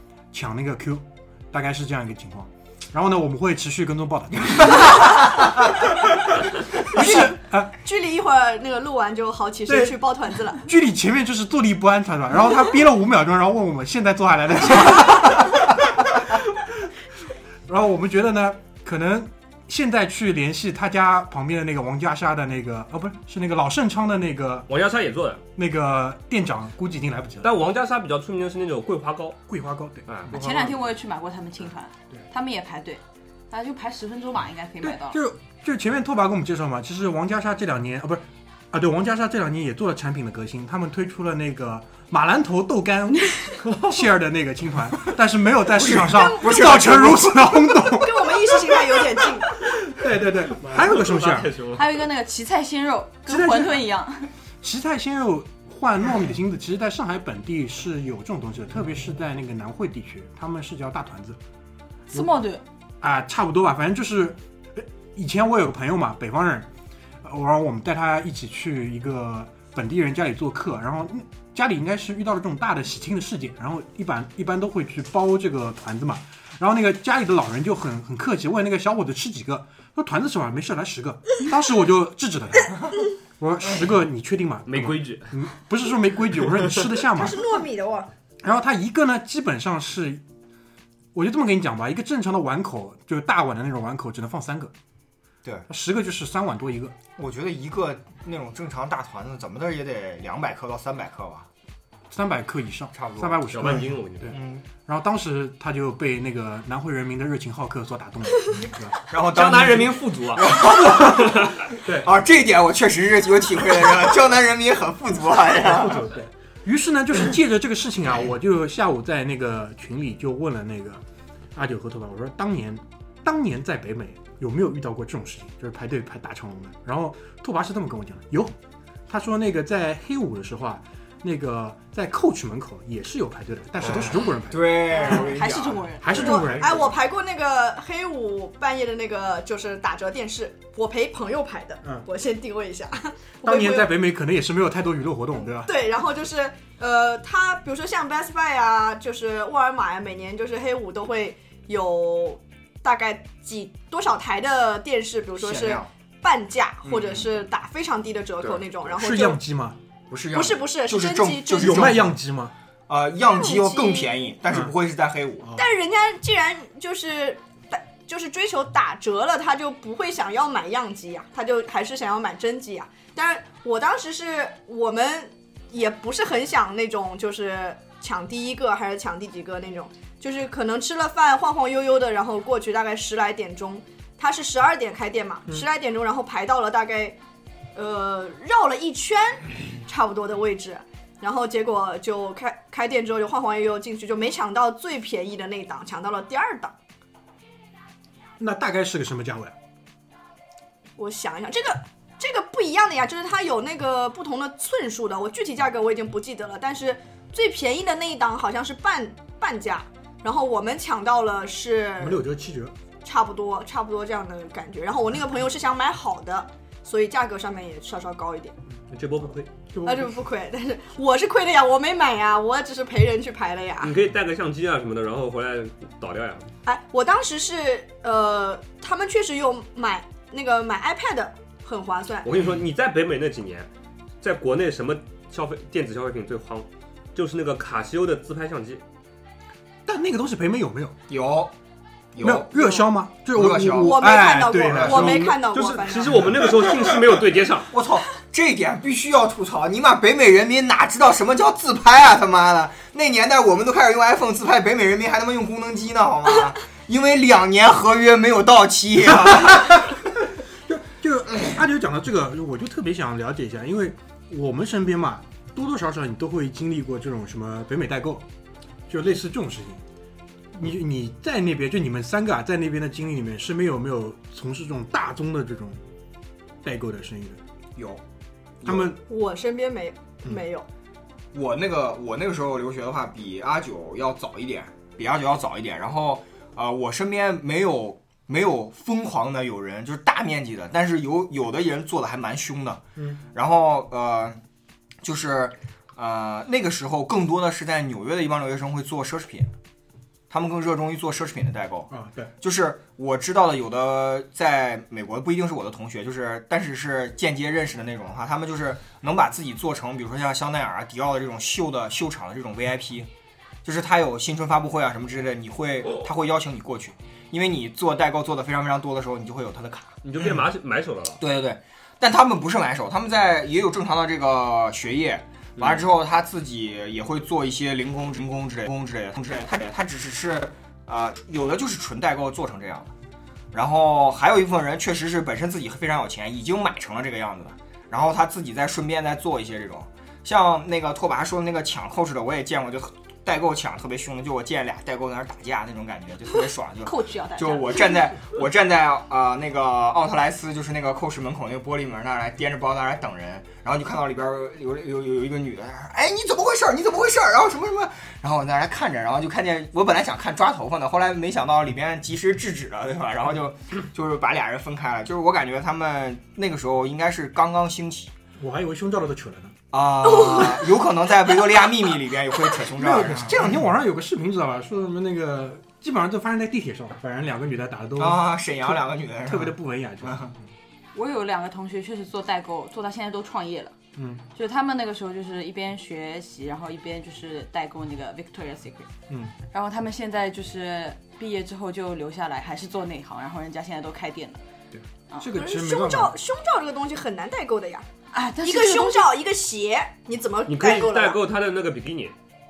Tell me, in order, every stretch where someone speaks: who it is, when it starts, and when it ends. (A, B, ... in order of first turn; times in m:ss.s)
0:00.3-0:05.3 A
0:06.8-0:07.7 A
0:06.9-0:10.6 B
0:09.7-0:10.0 A
0:10.5-0:16.9 A
0:17.7-0:24.7 A
0:24.7-0:25.4 C
0:25.6-0:27.6 A
0:27.4-0:29.4 C
0:29.5-0:30.6 A
0:30.1-0:30.8 C
0:30.3-0:35.2 D
0:34.8-0:48.8 A
0:45.7-0:47.6 E
0:46.1-0:46.6 B
0:47.9-0:49.5 B
0:49.9-0:51.5 A
0:50.5-0:51.9 C
0:51.8-0:54.3 D
0:53.3-0:53.8 A
0:54.6-1:01.4 A
1:02.1-1:02.6 D
1:03.0-1:06.7 A
1:07.2-1:27.5 A
1:24.7-1:25.4 C
1:27.1-1:28.1 B
1:28.4-1:30.2 A
1:31.1-1:34.7 A
1:35.7-1:37.0 A
1:37.2-1:41.5 E
1:42.1-1:48.9 A
1:42.9-1:44.6 E
1:43.5-1:44.4 C
1:49.0-1:56.0 E
1:49.1-1:51.9 C
1:55.6-2:01.0 A
2:01.6-2:08.6 A
2:09.1-2:15.3 A
2:13.8-2:16.9 E
2:14.9-2:16.2 D
2:16.0-2:16.9 A
2:16.1-2:23.9 B
2:23.4-2:25.7 A
2:25.7-2:39.4 B
2:35.4-2:35.9 E
2:36.8-2:37.3 E
2:38.9-2:39.8 A
2:40.1-2:42.1 E
2:40.3-2:42.0 B
2:41.6-2:42.5 A
2:42.9-2:45.6 E
2:43.3-2:44.1 B
2:45.5-3:07.2 B
3:07.8-3:16.8 B
3:18.4-3:19.6 A
3:21.0-3:32.2 B
3:32.0-3:32.7 A
3:33.0-3:38.6 B
3:38.9-3:39.5 C
3:39.7-3:40.1 A
3:39.8-3:44.0 B
3:43.8-3:46.5 C
3:46.6-3:52.3 B
3:52.2-3:53.7 C
3:54.2-3:58.8 C
3:59.9-4:01.0 A
4:01.1-4:01.5 E
4:02.1-4:02.8 E
4:02.2-4:05.4 A
4:03.4-4:04.0 E
4:03.8-4:06.3 B
4:04.7-4:05.2 E
4:05.5-4:07.7 C
4:07.7-4:19.9 E
4:19.3-4:19.8 A
4:20.7-4:28.2 A
4:28.9-4:29.8 A
4:30.5-4:35.8 A
4:36.6-4:37.4 A
4:37.8-4:38.0 E
4:38.6-4:39.0 A
4:39.1-4:40.7 B
4:41.3-4:52.8 E
4:53.0-4:53.2 A
4:53.3-4:54.4 E
4:55.0-4:59.5 E
5:00.3-5:13.1 E
5:01.9-5:02.3 A
5:13.6-5:20.4 E
5:20.0-5:21.2 C
5:21.2-5:32.9 E
5:25.6-5:25.8 C
5:33.5-6:08.1 E
5:46.8-5:48.1 D
6:08.4-6:09.6 A
6:09.7-6:13.6 E
6:12.7-6:20.4 A
6:18.0-6:20.3 E
6:20.9-6:23.8 D
6:24.0-6:24.2 A
6:24.4-6:28.9 D
6:29.5-6:34.4 D
6:34.8-6:36.1 A
6:35.3-6:37.9 B
6:38.1-6:39.1 D
6:38.4-6:41.2 B
6:40.5-6:42.1 C